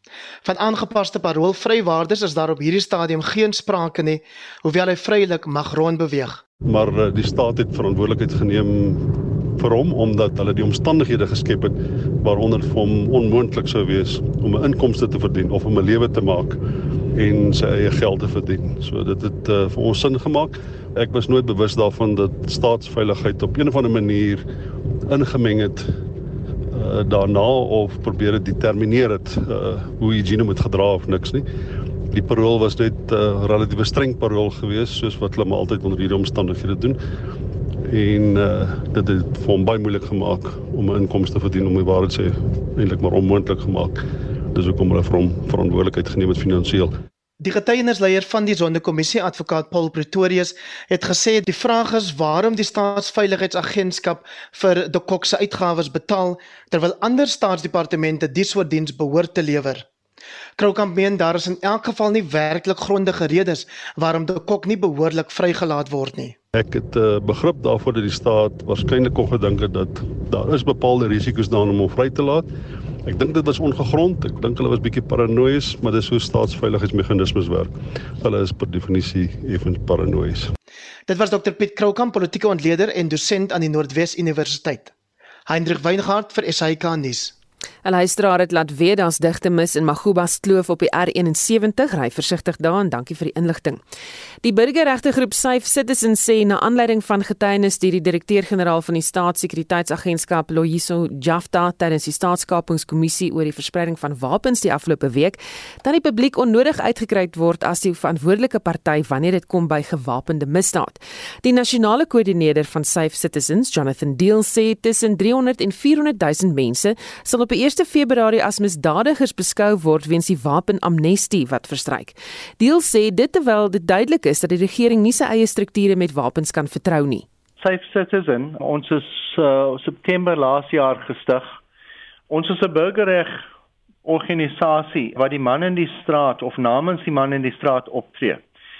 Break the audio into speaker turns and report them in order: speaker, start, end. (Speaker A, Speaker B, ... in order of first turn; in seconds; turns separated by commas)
Speaker A: 0.4-6.4, Speaker B: 6.6-16.6, Speaker B: 17.1-24.4, Speaker B: 25.1-25.9, Speaker B: 26.7-31.4, Speaker B: 32.1-37.0, Speaker B: 37.9-44.0, Speaker B: 44.5-46.9, Speaker A: 47.4-59.9, Speaker A: 60.6-66.3, Speaker B: 66.5-72.5, Speaker B: 73.0-80.5, Speaker A: 81.1-84.9, Speaker A: 85.5-87.3, Speaker C: 87.8-93.8, Speaker C: 94.4-127.2, Speaker D: 127.6-131.6, Speaker D: 132.3-133.4, Speaker D: 134.0-138.4